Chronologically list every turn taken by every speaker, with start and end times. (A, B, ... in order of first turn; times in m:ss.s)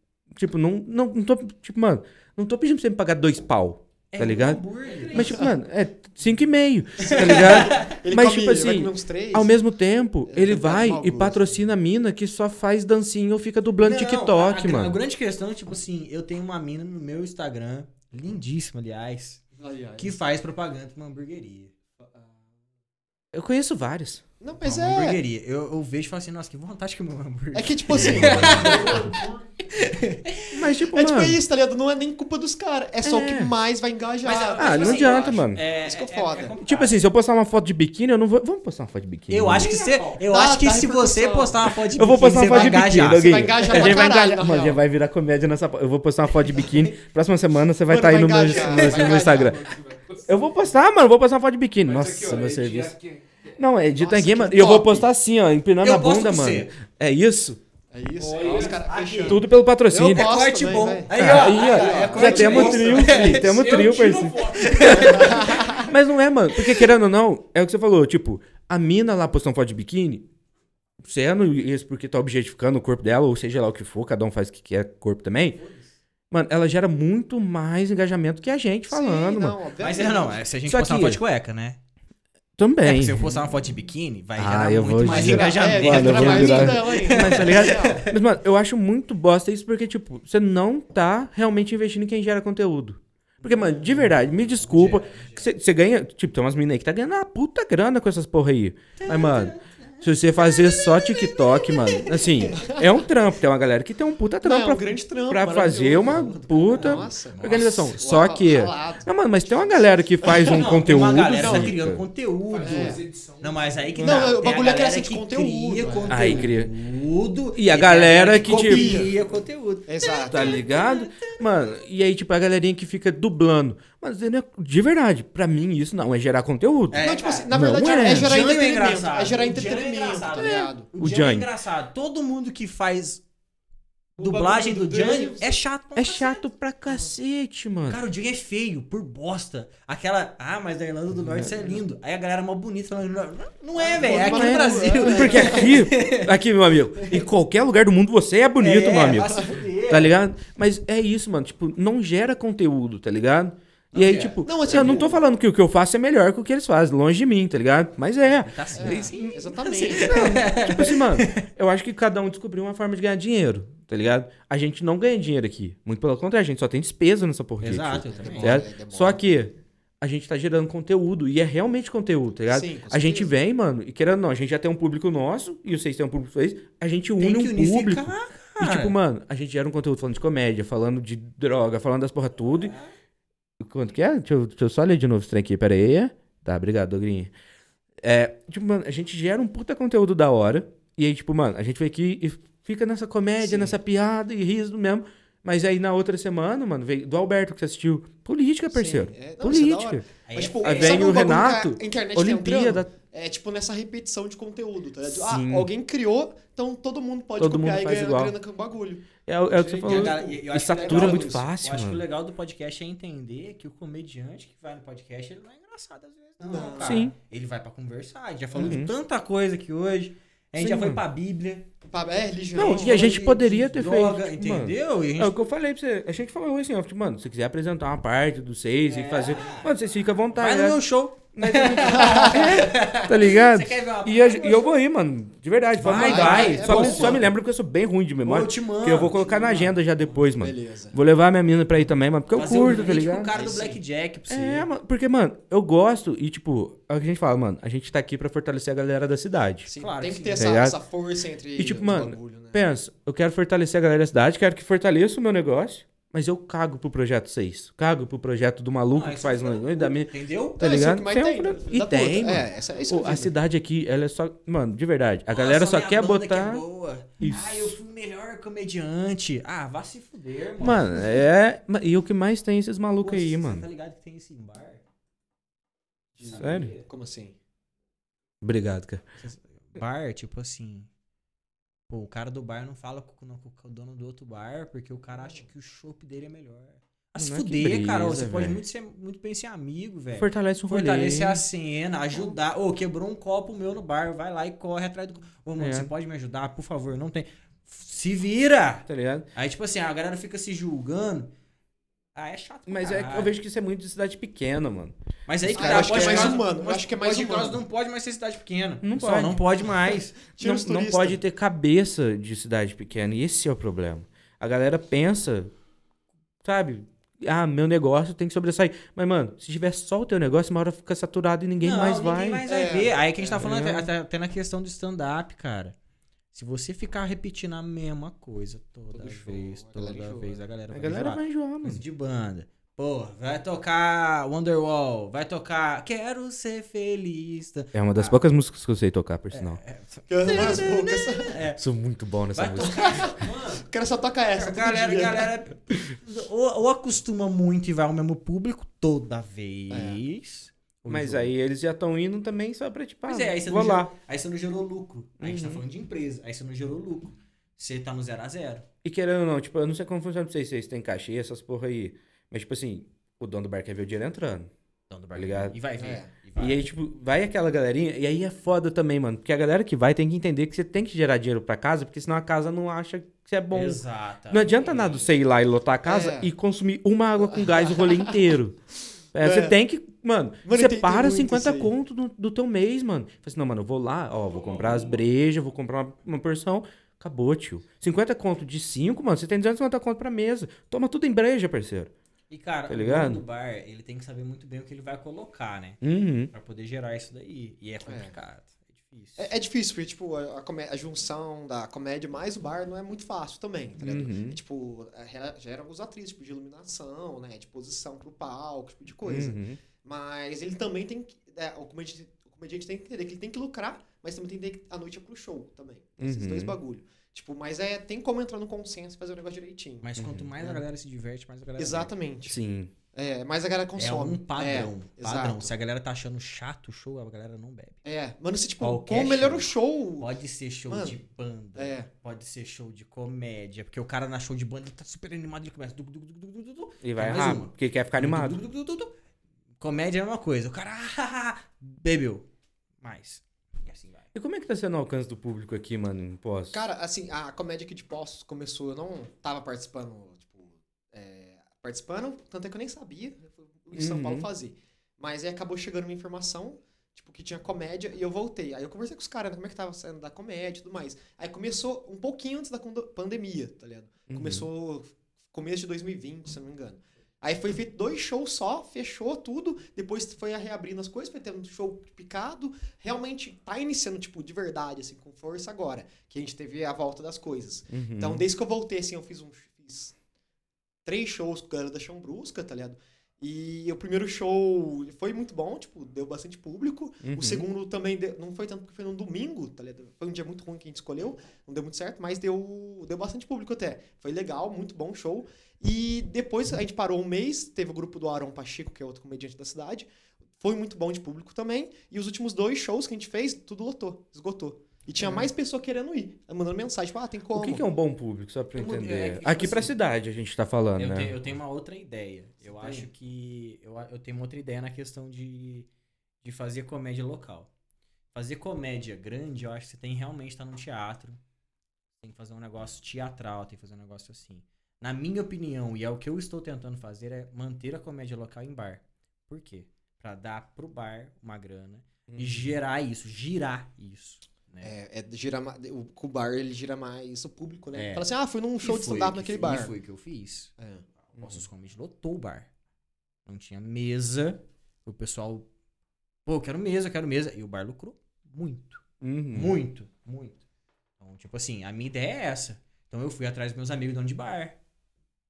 0:00.3-0:15.0 A
0:04.1-0:05.3 B
0:04.9-0:05.4 C
0:07.0-0:08.0 B
0:07.2-0:09.5 D
0:10.3-0:11.6 D
0:13.8-0:19.4 B
0:19.6-0:20.2 D
0:20.0-0:21.7 B
0:22.0-0:22.3 D
0:23.3-0:24.2 A
0:24.4-0:25.2 D
0:24.6-0:30.6 B
0:27.5-0:29.3 D
0:28.2-0:28.5 A
0:28.2-0:29.5 C
0:30.5-0:31.4 A
0:30.9-0:36.6 D
0:33.0-0:33.5 A
0:34.2-0:37.0 B
0:34.6-0:35.6 A
0:36.6-0:39.8 A
0:39.3-0:43.9 B
0:39.6-0:40.2 C
0:40.2-0:44.8 D
0:42.0-0:49.6 A
0:47.9-0:49.7 D
0:48.7-0:50.8 C
0:50.3-0:53.0 A
0:51.8-0:53.6 C
0:53.6-0:57.6 A
0:53.9-0:55.1 D
0:55.8-0:56.7 B
0:57.9-1:03.4 D
0:58.2-0:58.9 C
0:58.4-0:59.4 B
0:59.3-1:00.3 A
1:00.0-1:03.5 B
1:01.1-1:10.3 A
1:02.6-1:05.8 C
1:04.6-1:05.6 B
1:05.0-1:05.9 D
1:11.0-1:15.6 A
1:15.6-1:15.9 B
1:16.3-1:19.6 A
1:18.9-1:20.4 D
1:19.8-1:21.8 B
1:20.7-1:21.2 A
1:22.6-1:23.3 A
1:22.8-1:28.1 B
1:24.4-1:52.0 A
1:25.0-1:28.1 D
1:33.4-1:35.5 B
1:39.0-1:42.6 B
1:42.5-1:43.0 D
1:44.4-1:51.7 D
1:45.9-1:47.8 B
1:50.5-2:01.4 B
1:52.5-1:54.1 C
1:52.6-1:53.0 D
1:54.0-1:54.3 A
1:54.0-1:56.5 D
1:56.1-1:56.7 A
1:57.5-1:59.1 A
1:58.4-1:59.3 D
1:59.9-2:00.6 D
2:00.3-2:08.4 A
2:06.9-2:13.2 B
2:07.0-2:10.9 D
2:10.4-2:11.5 A
2:14.2-2:16.4 B
2:14.2-2:15.5 C
2:14.9-2:15.4 D
2:16.0-2:18.0 A
2:17.9-2:26.3 B
2:21.1-2:21.8 A
2:23.8-2:25.8 D
2:24.0-2:39.3 A
2:27.0-2:27.2 B
2:28.6-2:30.2 B
2:29.2-2:29.5 D
2:33.9-2:35.1 B
2:34.4-2:35.2 D
2:38.4-2:41.4 B
2:38.8-2:40.5 D
2:39.8-2:58.1 A
2:47.6-2:48.6 B
2:48.1-2:49.2 D
2:52.5-2:53.3 D
2:57.2-2:59.0 B
2:58.6-3:02.7 A
3:02.5-3:02.9 B
3:03.6-3:07.3 A
3:08.0-3:20.0 A
3:13.4-3:13.8 D
3:18.7-3:31.4 D
3:20.2-3:21.1 B
3:20.6-3:22.9 A
3:25.1-3:25.7 A
3:27.4-3:28.4 A
3:29.3-3:32.0 A
3:29.8-3:41.7 B
3:36.4-3:37.0 D
3:36.8-3:37.2 A
3:38.6-3:38.8 D
3:38.6-3:38.9 A
3:40.6-3:41.0 A
3:41.9-3:43.1 D
3:42.6-3:50.8 A
3:42.6-3:45.4 B
3:48.9-3:49.7 B
3:50.4-3:54.7 B
3:51.4-4:03.4 A
3:51.8-3:52.6 D
3:55.8-3:57.3 B
3:55.9-3:57.3 D
3:58.2-4:00.2 B
4:00.2-4:01.0 D
4:02.3-4:04.7 B
4:03.3-4:03.8 D
4:04.3-4:09.7 A
4:09.7-4:12.6 D
4:09.8-4:10.5 B
4:10.4-4:10.8 A
4:11.6-4:26.6 A
4:18.9-4:20.6 B
4:20.6-4:23.4 D
4:25.3-4:31.1 B
4:27.2-4:27.8 A
4:30.6-4:33.6 A
4:33.0-4:34.8 B
4:36.2-4:37.4 D
4:36.2-4:36.9 B
4:36.4-4:36.7 A
4:38.4-4:39.0 A
4:39.2-4:40.9 B
4:41.9-5:01.3 B
4:45.2-4:45.4 D
4:47.2-4:48.6 A
4:50.2-4:51.4 A
4:55.6-4:55.9 A
4:58.9-4:59.3 A
5:02.2-5:03.4 B
5:02.7-5:06.4 A
5:05.3-5:10.2 B
5:05.6-5:07.6 D
5:08.8-5:09.4 A
5:10.2-5:11.2 D
5:10.4-5:15.5 A
5:16.4-5:22.4 A
5:21.6-5:25.8 B
5:22.5-5:23.4 D
5:23.4-5:23.9 A
5:26.3-5:38.2 B
5:28.9-5:30.4 D
5:30.7-5:31.8 A
5:37.7-5:39.6 A
5:39.3-5:41.6 B
5:40.1-5:41.4 D
5:40.3-5:40.6 A
5:41.6-5:43.1 A
5:42.4-5:43.7 B
5:42.6-5:45.3 D
5:44.3-5:51.3 B
5:49.7-5:50.0 D
5:50.9-5:53.9 A
5:53.1-5:58.7 B
5:55.2-5:55.6 A
5:58.8-6:04.5 A
6:04.9-6:06.7 B
6:05.2-6:05.6 A
6:05.8-6:06.1 D
6:06.4-6:18.6 A
6:13.5-6:15.1 B
6:15.8-6:16.3 D
6:17.2-6:18.2 D
6:19.1-6:31.9 A
6:19.2-6:19.6 D
6:20.4-6:21.7 D
6:24.4-6:24.9 C
6:32.3-6:39.3 B
6:32.7-6:33.2 A
6:35.8-6:36.3 A
6:37.8-6:38.1 D
6:39.2-7:00.6 D
6:43.8-6:44.4 A
6:49.0-6:49.6 A
6:56.0-6:56.6 A
6:59.8-7:01.9 B
7:00.0-7:00.3 A
7:01.6-7:02.4 D
7:02.3-7:02.7 A
7:02.9-7:05.5 D
7:03.8-7:07.8 B
7:07.8-7:10.1 D
7:08.6-7:09.5 B
7:10.0-7:18.9 B
7:10.7-7:11.0 D
7:11.6-7:11.9 D
7:16.8-7:18.4 A
7:19.6-7:22.3 B
7:22.8-7:24.1 B
7:24.2-7:26.6 A
7:26.5-7:59.9 D
7:33.7-7:34.3 A
7:44.1-7:44.5 A
7:57.7-7:58.2 A
8:00.8-8:19.9 D
8:07.0-8:07.5 A
8:20.4-8:27.6 D
8:25.0-8:25.3 B
8:27.3-8:31.2 A
8:28.6-8:29.7 B
8:30.8-8:35.7 B
8:32.6-8:32.9 D
8:36.2-8:37.5 B
8:38.1-8:41.2 B
8:42.0-8:54.7 B
8:52.1-8:52.5 A
8:54.6-8:59.7 D
8:57.7-8:58.1 B
8:58.6-9:00.5 B
9:00.6-9:00.8 D
9:01.1-9:02.5 B
9:01.2-9:01.4 A
9:03.3-9:05.5 B
9:06.2-9:10.4 B
9:09.0-9:09.6 A
9:11.0-9:14.6 B